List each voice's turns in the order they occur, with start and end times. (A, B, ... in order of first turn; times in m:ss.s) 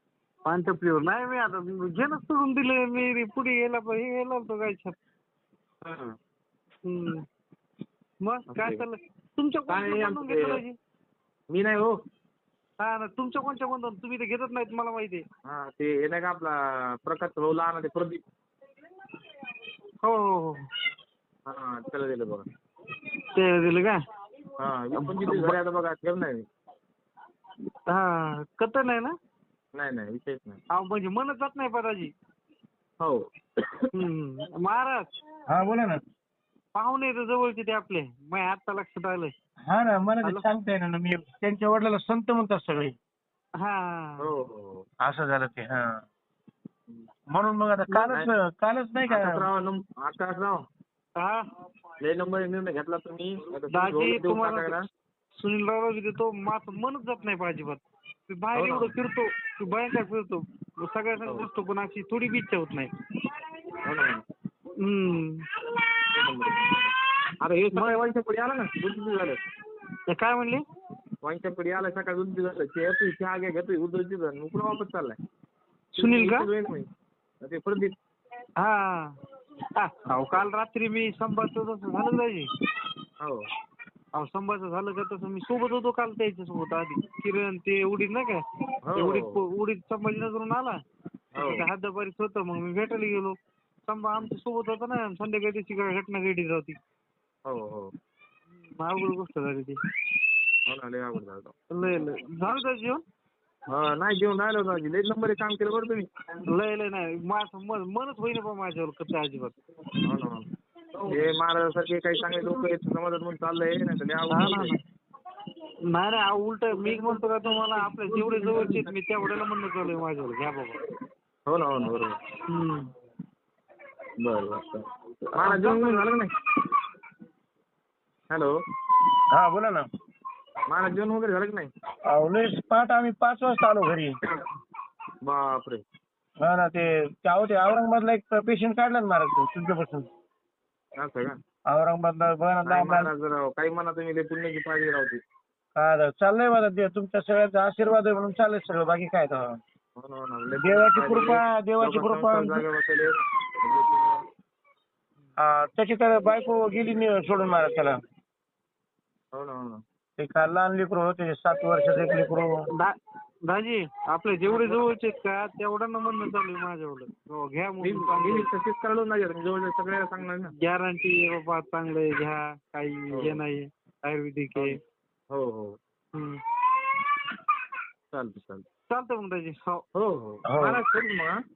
0:00.5-0:05.0 A
0:05.8-0:06.2 B
0:06.8-0:07.2 A
0:08.2-0:10.8 A
0:08.5-0:08.8 B
0:09.7-0:10.6 B
0:11.5-0:11.9 B
0:12.8-0:15.2 A
0:15.4-0:18.2 B
0:20.0-0:20.6 A
0:21.5-0:22.4 B
0:23.1-0:24.0 A
0:24.6-0:26.4 B
0:25.0-0:25.6 A
0:27.9-0:29.1 A
0:29.8-0:30.6 B
0:30.7-0:32.1 A
0:33.0-0:33.9 B
0:33.9-0:35.1 A
0:35.5-0:36.0 C
0:36.8-0:39.3 A
0:39.7-0:43.0 C
0:43.6-0:44.2 A
0:44.2-0:44.8 B
0:45.0-0:46.0 C
0:47.3-0:49.5 C
0:47.9-0:48.3 B
0:49.1-0:50.6 B
0:52.0-0:54.8 B
0:53.7-0:54.8 A
0:55.4-1:02.9 A
0:58.5-0:58.9 B
1:03.8-1:04.2 B
1:04.8-1:05.7 A
1:06.1-1:09.4 B
1:07.7-1:08.0 A
1:10.1-1:10.6 A
1:11.2-1:15.2 B
1:16.0-1:16.5 A
1:16.0-1:16.9 B
1:17.4-1:18.0 B
1:18.6-1:19.1 A
1:19.8-1:22.5 A
1:24.2-1:28.4 A
1:28.9-1:29.4 B
1:29.0-1:30.8 A
1:31.4-1:31.7 B
1:31.4-1:36.8 A
1:37.5-1:37.9 B
1:38.6-1:39.8 A
1:40.7-1:41.5 B
1:41.7-1:43.0 A
1:43.7-1:46.1 B
1:46.5-1:49.6 A
1:50.0-1:54.8 B
1:54.3-1:54.8 A
1:55.9-2:00.8 A
1:58.1-1:58.8 B
2:01.5-2:02.1 B
2:02.5-2:02.9 A
2:04.2-2:06.3 B
2:05.4-2:06.1 A
2:09.3-2:09.9 C
2:10.7-2:11.7 B
2:12.1-2:14.2 C
2:15.2-2:15.8 B
2:16.4-2:20.1 C
2:21.0-2:21.4 B
2:21.7-2:23.1 C
2:22.6-2:25.2 B
2:25.8-2:29.4 C
2:30.0-2:34.2 B
2:30.6-2:32.6 C
2:35.4-2:38.0 C
2:39.3-2:39.8 B
2:40.2-2:42.5 C
2:43.5-2:48.5 A
2:44.5-2:44.8 B
2:47.8-2:50.5 B
2:50.6-2:54.8 A
2:53.1-2:53.4 B
2:55.3-2:55.8 B
2:56.1-2:56.4 A
2:58.1-2:58.7 B
2:58.9-2:59.8 A
3:00.0-3:01.4 B
3:00.5-3:00.8 C